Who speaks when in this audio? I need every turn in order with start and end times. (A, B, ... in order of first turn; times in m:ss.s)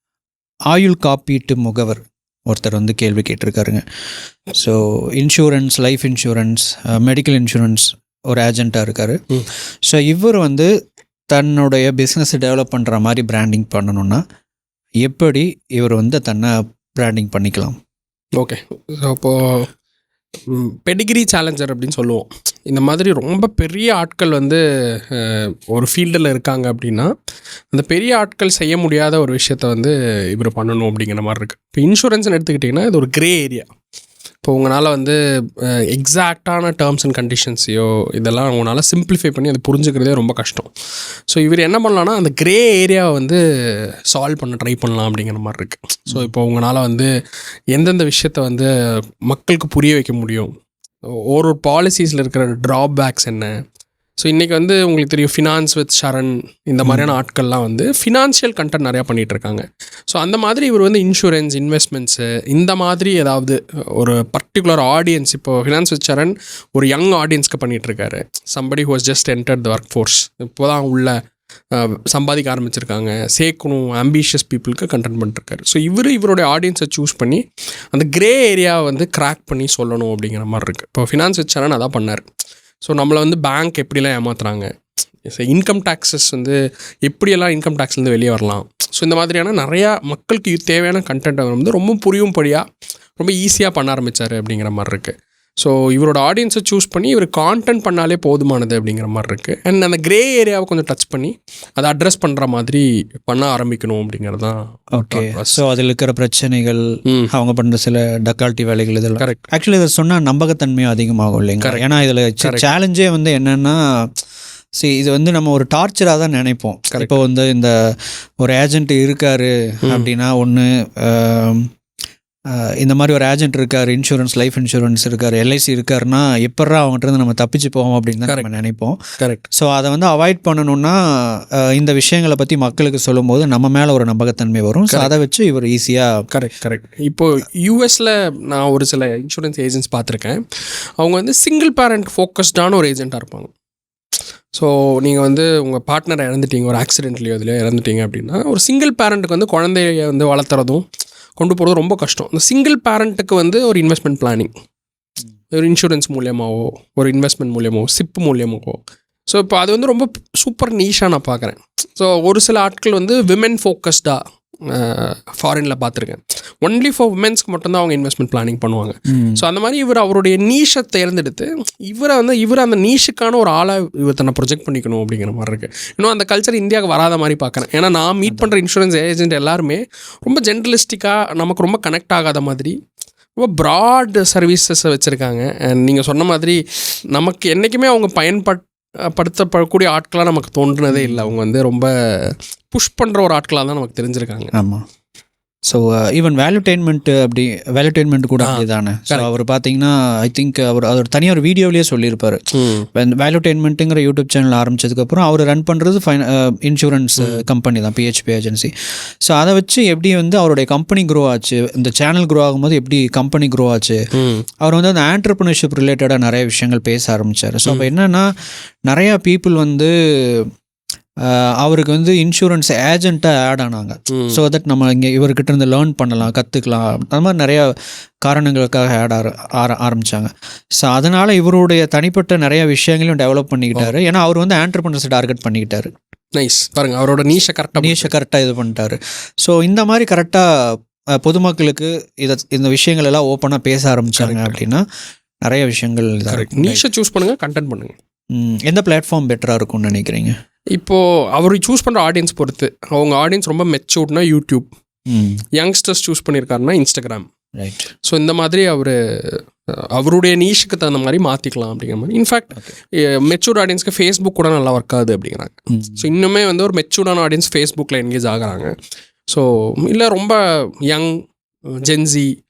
0:00.7-0:03.8 A
0:04.5-0:09.2 A
0:09.8-0:10.7 A
0:11.3-0:14.2 A
0:15.0-0:17.8 A
0:18.4-0:19.7 B
0:20.5-0:27.1 B
0:27.7-0:33.7 B
0:34.4-0:40.7 B
0:41.3-0:43.4 B
0:44.1-0:47.1 B
0:47.7-0:48.7 B
0:49.3-0:50.5 B
0:51.0-0:53.5 B
0:54.2-1:11.1 B
0:56.8-0:57.1 A
1:11.7-1:17.4 B
1:17.9-1:22.2 B
1:22.8-1:24.7 B
1:25.2-1:32.6 B
1:33.2-1:45.6 B
1:45.0-1:54.1 A
1:49.2-1:49.4 B
1:51.6-1:52.7 B
1:54.8-2:01.7 A
1:56.9-1:57.2 B
2:02.5-2:09.0 A
2:09.2-2:09.4 B
2:09.5-2:16.1 A
2:16.3-2:20.4 B
2:21.0-2:23.5 B
2:24.5-2:30.8 B
2:31.4-2:34.5 B
2:35.5-3:02.7 B
2:49.1-2:49.4 A
2:58.3-2:58.5 A
3:03.4-3:06.6 B
3:07.1-3:14.5 B
3:10.9-3:11.3 A
3:14.5-3:14.8 A
3:15.6-3:22.4 A
3:18.4-3:19.3 B
3:22.5-3:22.9 B
3:22.9-3:28.7 A
3:27.2-3:27.4 B
3:29.2-3:34.0 A
3:34.1-3:34.4 B
3:34.6-3:38.3 A
3:38.9-3:40.5 A
3:41.2-3:55.9 A
3:44.1-3:44.4 B
3:56.3-3:58.1 B
3:57.8-4:00.4 A
4:01.2-4:04.8 A
4:04.1-4:04.6 B
4:05.4-4:06.8 A
4:06.3-4:08.0 B
4:08.3-4:10.4 A
4:10.7-4:14.7 B
4:15.1-4:15.4 A
4:15.5-4:17.3 B
4:17.6-4:17.9 A
4:18.0-4:19.4 B
4:19.9-4:28.7 B
4:25.7-4:26.1 A
4:29.3-4:32.3 B